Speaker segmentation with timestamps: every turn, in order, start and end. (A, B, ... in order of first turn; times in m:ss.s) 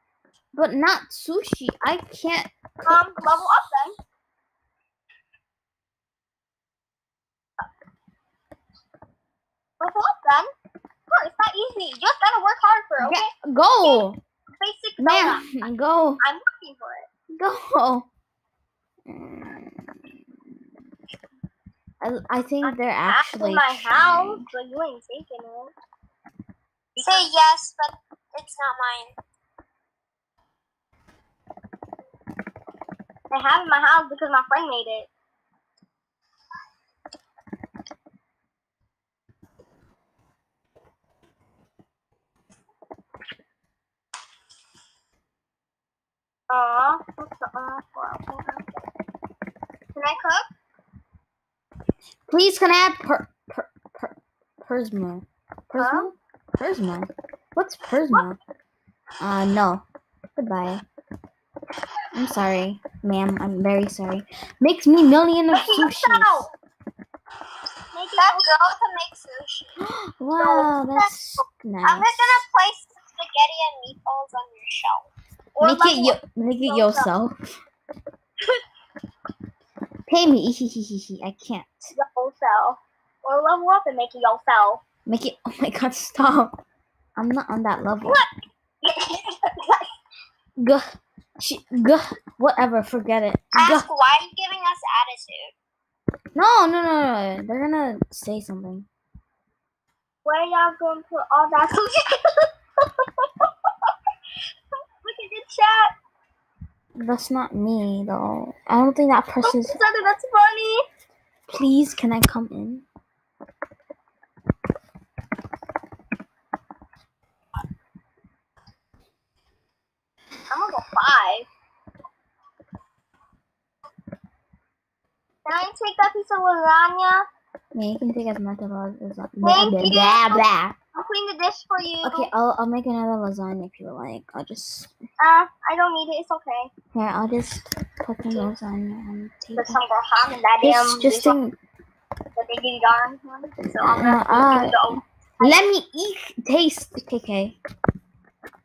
0:00.5-0:03.4 A
0:02.8-0:04.0 B
0:09.8-0:10.5 B
0:11.1-0:13.3 B
0:13.0-0:14.2 A
0:14.6-0:15.7 B
0:15.0-0:16.2 A
0:16.2-0:17.1 B
0:17.3-0:18.1 A
0:19.0-0:20.2 A
0:22.0-0:24.4 A
0:22.6-0:25.7 B
0:27.0-0:27.2 B
0:27.0-0:29.1 C
0:33.3-0:35.1 B
0:46.5-0:48.7 B
0:49.9-0:50.5 B
0:52.3-0:58.4 A
0:55.8-0:56.1 B
0:59.2-0:59.8 A
1:00.4-1:00.8 A
1:02.1-1:06.5 A
1:05.5-1:06.5 B
1:07.9-1:08.5 B
1:08.2-1:09.8 C
1:09.8-1:12.4 A
1:10.4-1:10.7 B
1:11.8-1:15.1 C
1:15.6-1:17.1 B
1:15.6-1:17.6 A
1:20.1-1:21.9 A
1:21.9-1:24.8 B
1:25.0-1:26.6 A
1:27.2-1:28.2 A
1:28.8-1:29.9 B
1:30.6-1:33.9 A
1:33.5-1:35.5 C
1:36.3-1:38.9 A
1:40.2-1:42.5 B
1:43.0-1:43.3 B
1:45.0-1:45.9 B
1:47.0-1:49.8 A
1:49.4-1:50.8 B
1:51.5-1:52.8 A
2:00.5-2:01.5 B
2:05.4-2:07.3 B
2:07.7-2:10.8 A
2:09.4-2:12.3 B
2:12.0-2:14.9 A
2:15.2-2:16.7 B
2:16.9-2:19.8 A
2:19.5-2:21.4 B
2:20.6-2:21.6 A
2:22.4-2:25.6 B
2:23.8-2:27.6 A